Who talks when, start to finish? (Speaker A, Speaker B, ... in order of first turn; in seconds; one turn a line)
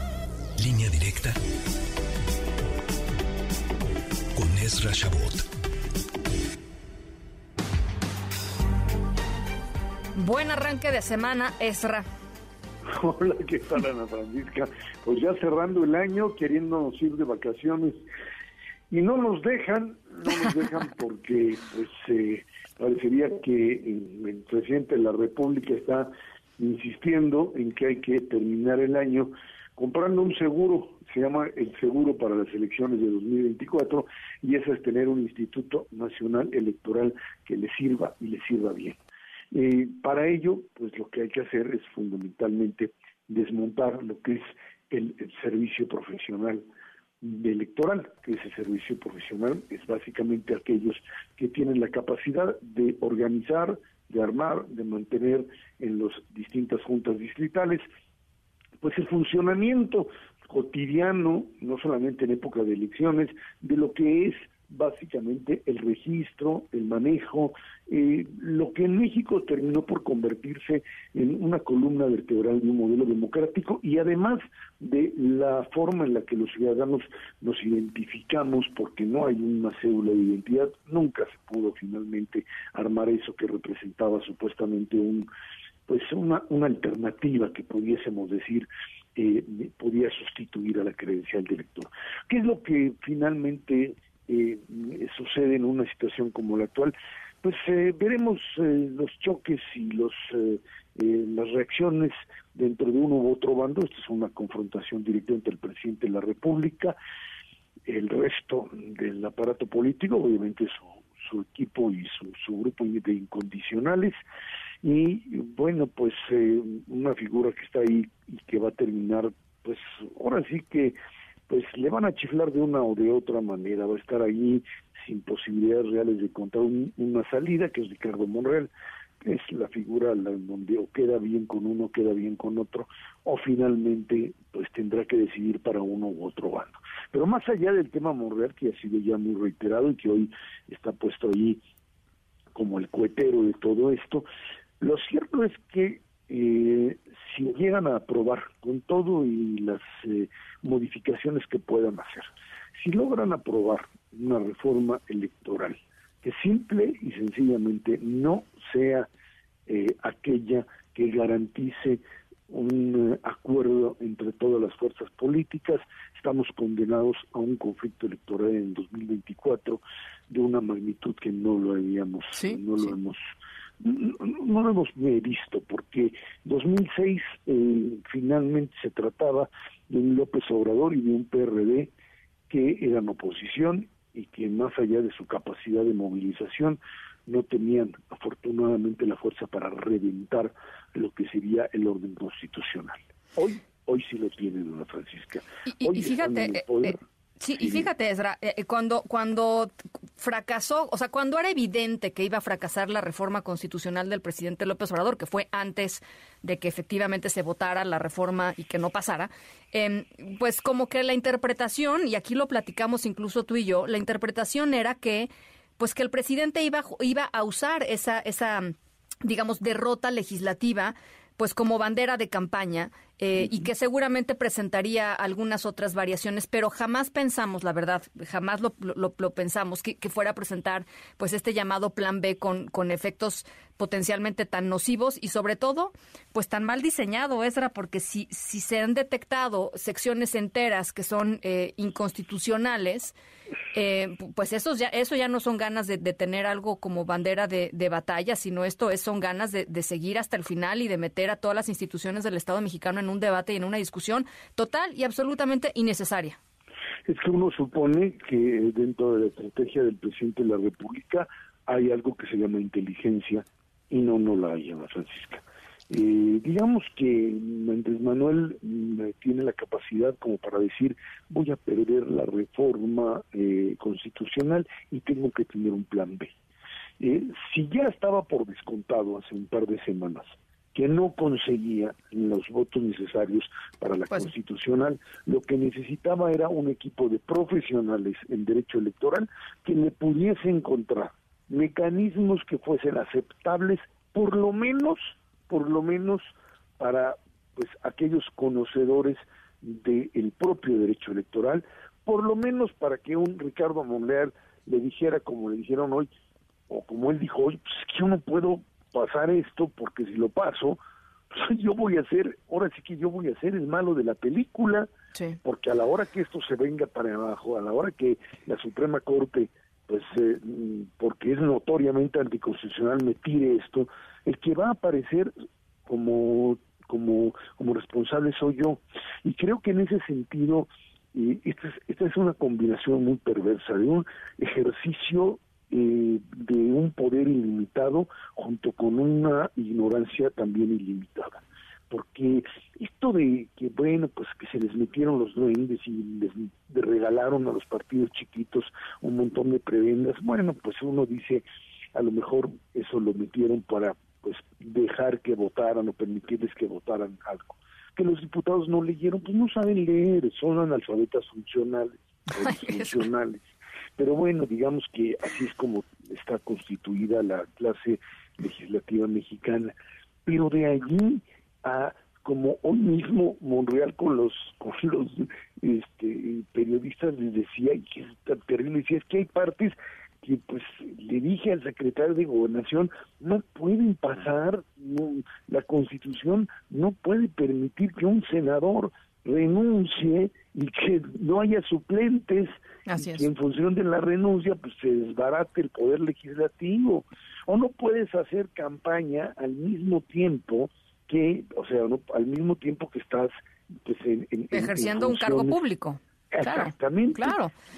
Speaker A: 0.6-1.4
Speaker A: 4.3-5.5
Speaker B: 10.1-12.1
Speaker C: 12.9-18.0
Speaker C: 18.9-39.0
Speaker C: 39.5-46.6
Speaker C: 47.2-57.8
Speaker C: 58.8-85.3
Speaker C: 85.9-107.0
Speaker C: 107.8-114.2
Speaker C: 114.8-121.0
Speaker C: 121.5-141.6
Speaker C: 142.5-144.2
Speaker C: 144.8-159.1
Speaker C: 159.7-173.2
Speaker B: 172.3-172.9
Speaker C: 173.8-181.9
Speaker C: 182.5-197.0
Speaker B: 195.7-243.2
Speaker C: 197.6-197.9
Speaker B: 243.7-256.4
Speaker C: 257.1-276.3
Speaker C: 277.0-306.1
Speaker C: 306.7-310.8
Speaker C: 311.3-314.9
Speaker C: 315.4-325.3
Speaker C: 325.9-363.4
Speaker B: 362.4-363.1
Speaker C: 364.0-369.7
Speaker C: 370.2-403.3
Speaker B: 392.9-393.3
Speaker C: 403.8-405.6
Speaker B: 404.5-407.5
Speaker C: 406.3-407.4